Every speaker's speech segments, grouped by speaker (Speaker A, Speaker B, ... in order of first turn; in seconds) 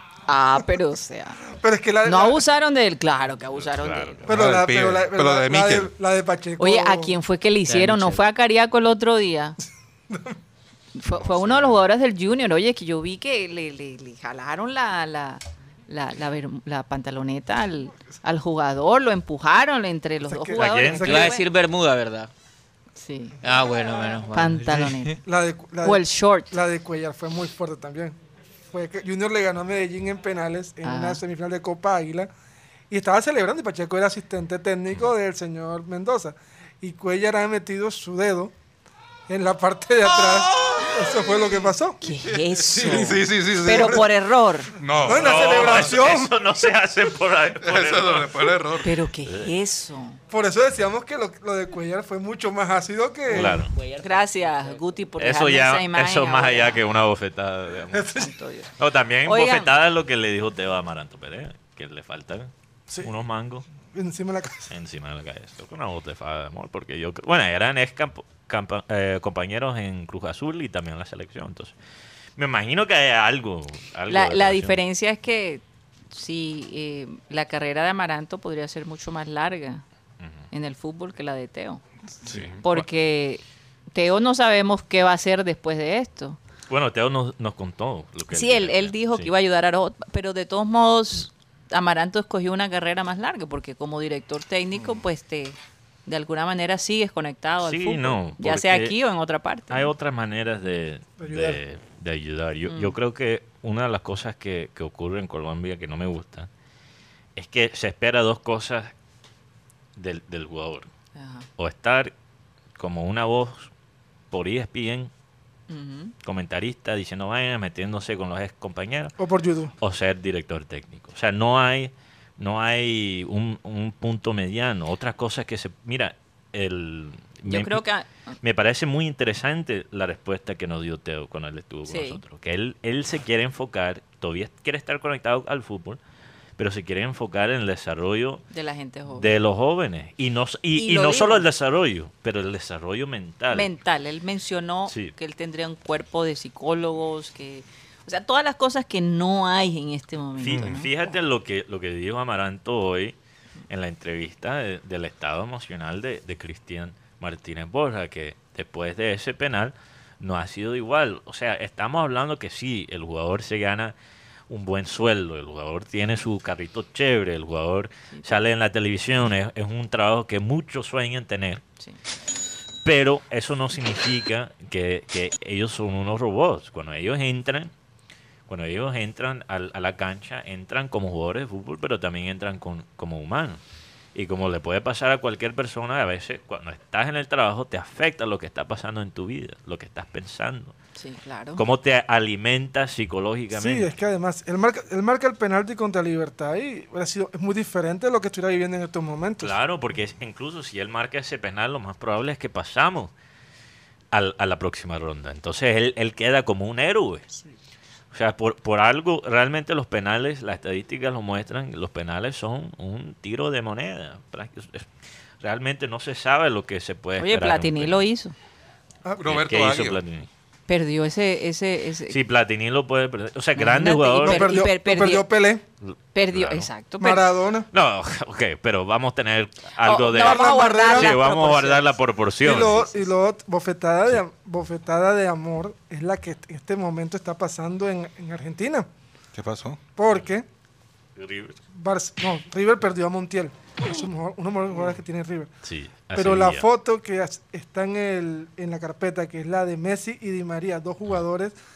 Speaker A: 0.3-1.4, 2.0-4.2, 6.6-9.6, 10.9-21.4, 23.0-23.4, 24.3-25.2, 25.8-26.5, 30.8-31.2, 42.0-44.7, 48.8-50.2, 54.0-56.8, 58.1-58.7, 59.2-59.7, 74.1-79.8, 80.5-81.8, 82.6-86.4, 88.3-99.9, 102.7-103.0, 111.1-111.5, 115.7-116.1, 127.4-128.3, 131.9-132.2, 138.5-139.3, 140.7-141.4, 143.5-151.1, 168.1-168.4, 191.0-191.6, 217.2-218.3, 220.7-222.2, 223.6-225.3, 226.1-227.3, 229.8-231.9
Speaker B: 1.6-2.4, 4.3-7.1, 10.1-10.3, 20.2-21.3, 25.2-28.2, 28.7-32.3, 32.9-38.5, 39.3-42.0, 42.8-43.2, 45.0-46.3, 50.3-53.6, 57.9-58.2, 63.9-64.7, 101.2-101.6, 119.2-119.7, 193.5-199.5, 224.2-225.6, 227.0-227.7, 230.1-231.1, 232.4-238.9, 239.9-240.4, 241.8-245.5, 246.1-251.5
Speaker C: 3.5-4.3, 11.2-11.6, 20.6-21.3, 40.2-40.9, 45.0-48.5, 49.2-49.5, 53.3-53.7, 55.2-58.1, 58.8-63.6, 64.7-71.7, 72.4-74.8, 82.3-82.8, 86.7-89.3, 97.6-99.0, 99.7-106.5, 107.3-108.9, 110.0-110.9, 111.6-112.1, 112.8-113.7, 114.3-115.1, 116.2-119.2, 119.8-127.8, 128.4-136.0, 136.6-138.4, 139.1-143.7, 144.9-145.1, 150.4-153.2, 153.7-163.9, 164.5-171.6, 172.8-177.7, 178.5-183.6, 184.1-190.7, 191.6-193.9, 199.4-203.1, 204.1-207.2, 208.1-214.9, 215.4-218.0, 219.2-220.3, 222.1-224.6, 225.8-226.7, 227.7-232.9, 241.2-241.6, 245.6-246.7
Speaker D: 4.2-5.9, 42.7-44.1, 44.7-46.0, 47.6-48.9, 82.2-82.6, 150.5-150.8, 219.2-220.0, 239.3-239.8
Speaker E: 7.7-8.2, 21.0-22.3, 23.4-24.9, 53.3-54.8